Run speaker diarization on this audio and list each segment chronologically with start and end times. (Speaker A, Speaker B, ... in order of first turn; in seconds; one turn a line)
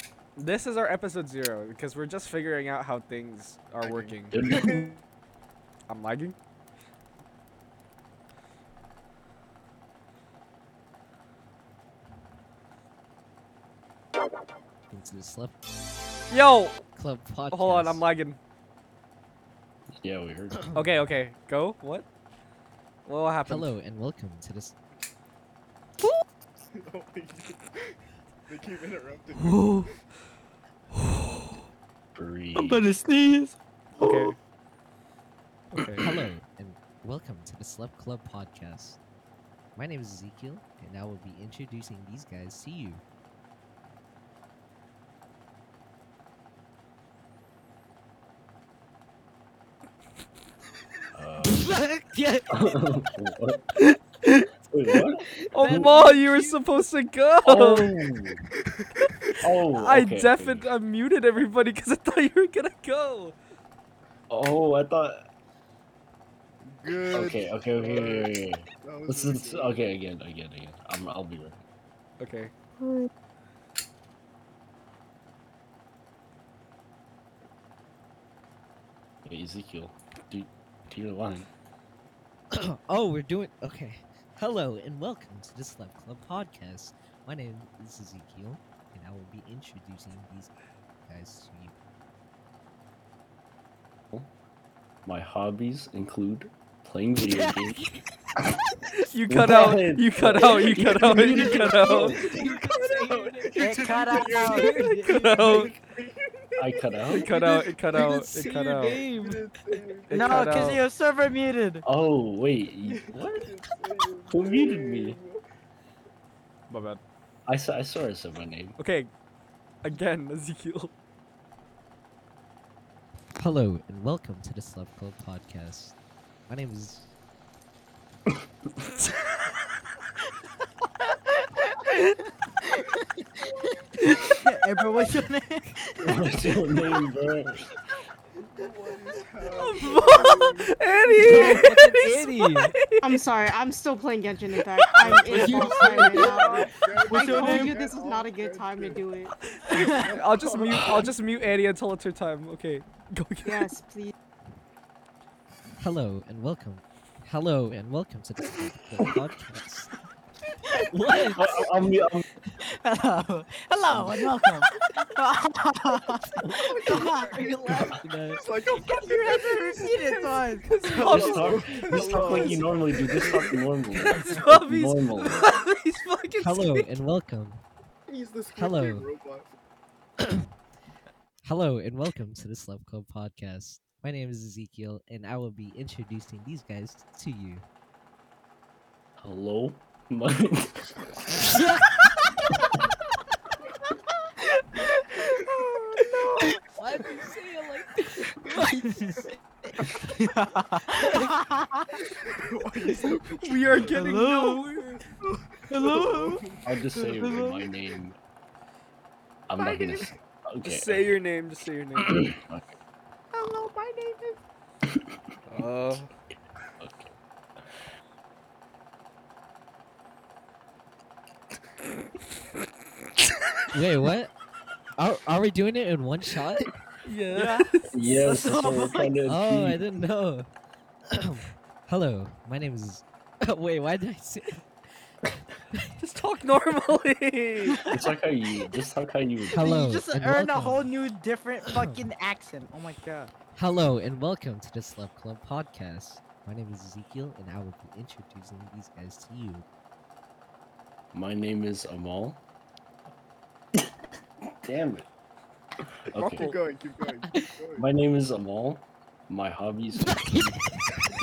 Speaker A: 0.4-4.4
Speaker B: 3.8-5.0
Speaker C: 4.3-5.0
Speaker A: 5.9-6.3
Speaker D: 14.9-15.6
Speaker A: 16.3-16.8
Speaker D: 16.9-18.0
Speaker A: 17.5-18.4
Speaker C: 19.9-20.6
Speaker A: 20.7-22.1
Speaker A: 23.1-23.7
Speaker D: 23.4-24.7
Speaker B: 26.7-27.9
Speaker B: 28.5-29.9
Speaker A: 29.4-29.9
Speaker A: 30.9-31.5
Speaker C: 32.1-32.8
Speaker E: 32.5-34.3
Speaker A: 34.0-34.4
Speaker A: 35.7-36.2
Speaker D: 36.0-39.0
Speaker D: 39.8-43.0
Speaker C: 51.1-51.8
Speaker D: 51.5-52.7
Speaker C: 52.5-53.6
Speaker A: 53.8-54.5
Speaker C: 54.7-55.9
Speaker D: 55.3-56.6
Speaker A: 55.5-57.9
Speaker C: 57.4-58.4
Speaker C: 59.4-60.7
Speaker A: 59.7-63.3
Speaker C: 64.3-65.2
Speaker B: 66.7-69.8
Speaker C: 67.1-71.6
Speaker A: 72.2-72.5
Speaker F: 72.8-73.1
Speaker C: 79.2-81.5
Speaker D: 82.5-90.5
Speaker D: 91.0-91.7
Speaker C: 95.0-97.8
Speaker A: 99.0-102.2
Speaker C: 99.3-102.4
Speaker D: 102.0-105.7
Speaker B: 102.2-107.2
Speaker E: 103.5-105.2
Speaker A: 104.3-105.7
Speaker C: 106.6-107.3
Speaker A: 107.1-109.0
Speaker D: 107.3-109.8
Speaker B: 109.0-110.8
Speaker A: 110.1-110.8
Speaker E: 110.1-111.8
Speaker C: 111.8-113.5
Speaker B: 112.9-115.4
Speaker C: 114.3-115.2
Speaker A: 116.7-117.0
Speaker C: 117.5-118.8
Speaker A: 118.8-119.1
Speaker A: 119.8-120.9
Speaker D: 123.4-126.0
Speaker D: 126.5-127.1
Speaker E: 131.4-133.4
Speaker B: 133.4-134.2
Speaker E: 134.0-136.9
Speaker C: 136.0-137.7
Speaker B: 138.4-141.5
Speaker A: 139.6-143.2
Speaker D: 141.2-142.7
Speaker E: 141.3-141.7
Speaker F: 143.0-149.3
Speaker B: 145.0-149.0
Speaker E: 145.2-147.8
Speaker A: 149.5-153.7
Speaker E: 149.7-150.2
Speaker B: 149.9-151.1
Speaker F: 153.4-154.1
Speaker D: 155.8-159.9
Speaker D: 160.7-161.4
Speaker C: 161.2-162.2
Speaker E: 162.6-167.4
Speaker C: 163.9-164.2
Speaker D: 166.4-168.4
Speaker B: 166.6-170.2
Speaker E: 168.8-172.5
Speaker A: 169.8-172.0
Speaker B: 171.0-173.5
Speaker C: 171.0-175.4
Speaker A: 173.9-176.9
Speaker D: 176.4-177.6
Speaker B: 178.1-179.5
Speaker D: 178.5-179.1
Speaker D: 180.2-180.5
Speaker D: 181.4-187.6
Speaker C: 189.2-191.0
Speaker E: 191.4-192.6
Speaker E: 194.4-196.6
Speaker B: 195.6-196.5
Speaker D: 196.7-199.2
Speaker E: 198.4-199.3
Speaker E: 199.9-202.0
Speaker D: 201.0-201.3
Speaker B: 202.1-203.9
Speaker A: 202.8-205.0
Speaker E: 203.8-204.7
Speaker B: 205.2-206.6
Speaker E: 205.7-207.7
Speaker C: 206.6-208.2
Speaker C: 209.5-211.2
Speaker B: 209.6-210.2
Speaker A: 210.6-212.3
Speaker C: 212.0-212.7
Speaker B: 213.3-214.4
Speaker C: 214.8-215.2
Speaker A: 215.5-216.1
Speaker C: 216.8-217.1
Speaker D: 223.7-224.3
Speaker D: 225.0-226.7
Speaker A: 227.0-227.9
Speaker E: 227.3-229.2
Speaker C: 227.9-229.8
Speaker D: 229.2-230.4
Speaker D: 231.1-234.6
Speaker A: 236.0-237.8
Speaker E: 237.7-238.1
Speaker C: 237.9-239.8
Speaker D: 239.5-240.9
Speaker E: 239.5-243.3
Speaker D: 241.7-242.1
Speaker D: 243.6-249.7
Speaker C: 251.1-252.4
Speaker C: 254.6-255.1
Speaker C: 256.1-256.5
Speaker A: 256.1-256.6
Speaker B: 256.4-257.9
Speaker C: 257.8-260.6
Speaker E: 260.0-261.0